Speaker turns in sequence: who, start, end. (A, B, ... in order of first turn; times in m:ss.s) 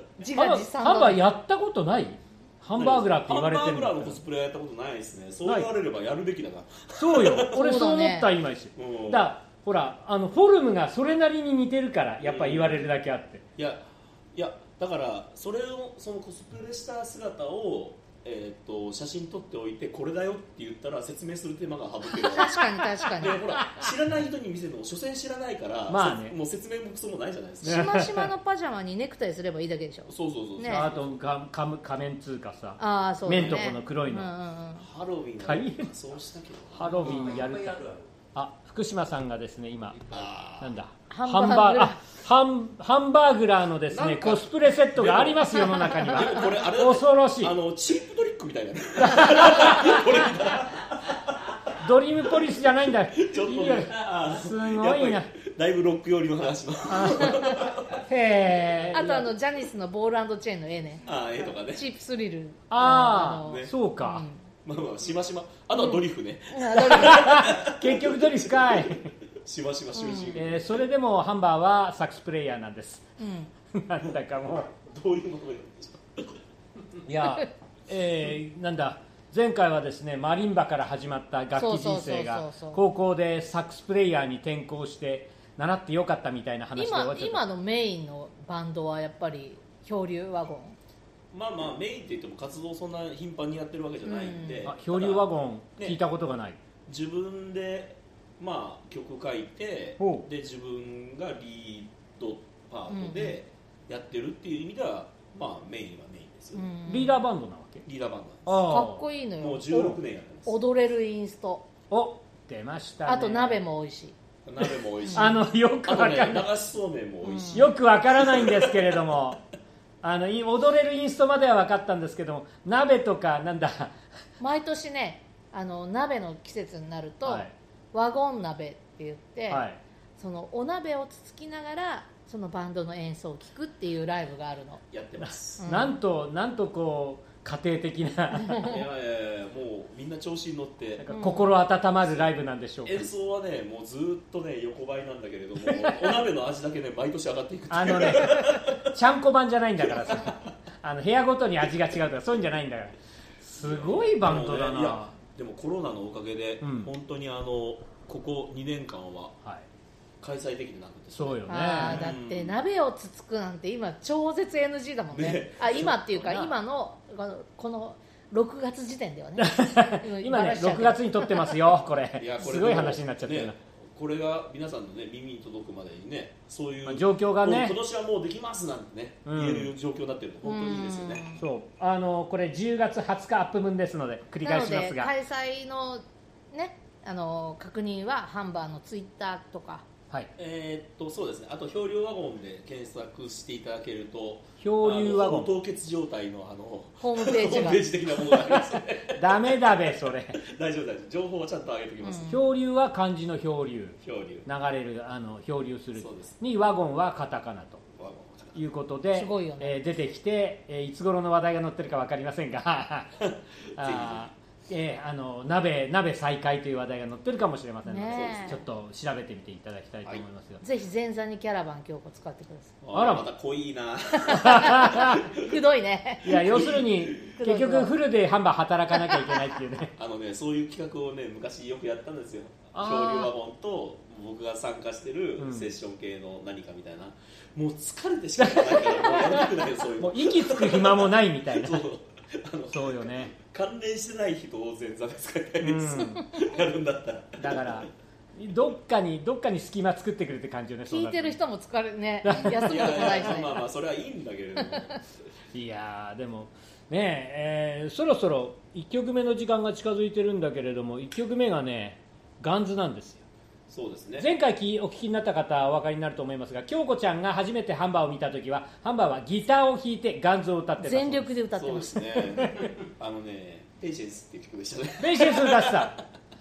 0:00.2-0:01.2 A
0:00.4-0:04.2 B
0:02.8-0:07.6 C
0:07.0-0:13.4 B
0:07.5-0:08.3 A
0:08.8-0:09.3 C
0:12.2-0:12.9 C
0:13.6-0:22.6 C
0:22.2-0:23.4 A
0:23.1-0:28.0 C
0:23.4-0:23.9 B
0:25.9-0:26.4 B
0:27.6-0:30.9 A
0:27.6-0:28.3 B
0:30.1-0:31.1 C
0:30.7-0:34.3 B
0:32.8-0:34.9 A
0:33.3-0:33.7 C
0:34.8-0:38.0 C
0:35.4-0:35.9 B
0:36.7-0:40.1 B
0:40.1-0:40.8 C
0:40.6-0:47.6 B
0:41.1-0:42.0 A
0:43.9-0:51.6 C
0:49.0-0:50.2 B
0:51.8-0:55.3 B
0:53.1-0:58.1 C
0:56.9-0:59.3 B
0:58.9-1:01.1 A
1:01.0-1:01.9 C
1:01.6-1:04.5 A
1:02.7-1:04.2 B
1:03.4-1:03.7 C
1:04.6-1:10.9 C
1:05.8-1:07.4 A
1:06.8-1:09.1 B
1:10.0-1:10.4 A
1:10.4-1:13.0 B
1:13.2-1:13.5 A
1:13.7-1:14.7 B
1:14.7-1:16.4 C
1:17.1-1:27.4 B
1:21.6-1:22.8 A
1:26.8-1:30.8 A
1:31.3-1:36.0 C
1:34.0-1:34.7 A
1:34.6-1:36.6 B
1:36.9-1:46.7 C
1:40.0-1:40.3 B
1:42.9-1:43.4 A
1:46.5-1:47.2 A
1:46.9-1:47.8 B
1:47.8-1:48.7 C
1:48.5-1:49.1 B
1:48.6-1:51.7 A
1:49.4-1:50.6 C
1:51.9-1:53.6 B
1:53.0-1:54.2 A
1:54.4-1:59.0 C
1:55.0-1:55.3 A
1:55.1-1:56.5 B
1:57.2-1:57.7 A
1:57.5-1:59.4 B
2:00.0-2:04.0 B
2:04.4-2:09.6 A
2:07.2-2:07.5 B
2:09.5-2:09.8 B
2:10.2-2:14.8 A
2:14.9-2:15.6 C
2:15.3-2:18.8 B
2:15.6-2:16.0 A
2:18.4-2:18.7 A
2:18.6-2:21.1 C
2:21.0-2:23.1 B
2:21.1-2:21.5 A
2:22.0-2:22.3 C
2:22.8-2:28.9 C
2:25.7-2:26.2 B
2:27.7-2:35.1 B
2:29.8-2:30.4 C
2:33.6-2:39.4 C
2:36.6-2:36.9 B
2:40.2-2:42.6 C
2:41.2-2:42.1 B
2:41.5-2:51.6 A
2:45.1-2:46.1 C
2:46.2-2:46.5 B
2:49.4-2:53.6 B
2:52.2-3:01.2 C
2:56.9-2:57.8 B
2:59.3-2:59.7 B
3:00.4-3:01.4 A
3:01.4-3:05.1 B
3:04.4-3:09.8 A
3:10.4-3:22.4 C
3:14.6-3:15.5 B
3:17.0-3:17.8 A
3:18.3-3:20.4 B
3:22.0-3:22.4 A
3:22.3-3:27.8 B
3:24.0-3:24.5 C
3:26.0-3:26.4 C
3:27.9-3:28.6 C
3:28.6-3:33.1 B
3:29.1-3:29.8 A
3:33.2-3:34.3 C
3:33.8-3:40.6 B
3:37.8-3:38.6 A
3:38.1-3:38.6 C
3:40.6-3:42.8 A
3:42.8-3:45.5 C
3:42.9-3:43.3 B
3:44.2-3:46.4 A
3:44.3-3:45.2 B
3:46.2-3:49.9 B
3:46.3-3:47.3 C
3:47.4-3:48.0 A
3:48.9-3:49.6 A
3:50.0-4:07.9 C
3:52.8-3:53.3 B
3:55.4-3:55.7 B
3:58.4-4:01.9 B
4:02.7-4:03.4 B
4:05.6-4:06.3 B
4:07.4-4:11.4 B
4:10.9-4:13.6 A
4:12.2-4:13.3 B
4:12.4-4:15.1 C
4:14.7-4:15.0 A
4:15.5-4:23.2 B
4:23.7-4:24.3 C
4:24.2-4:31.3 B
4:30.8-4:32.5 A
4:31.6-4:35.9 C
4:35.0-4:36.0 B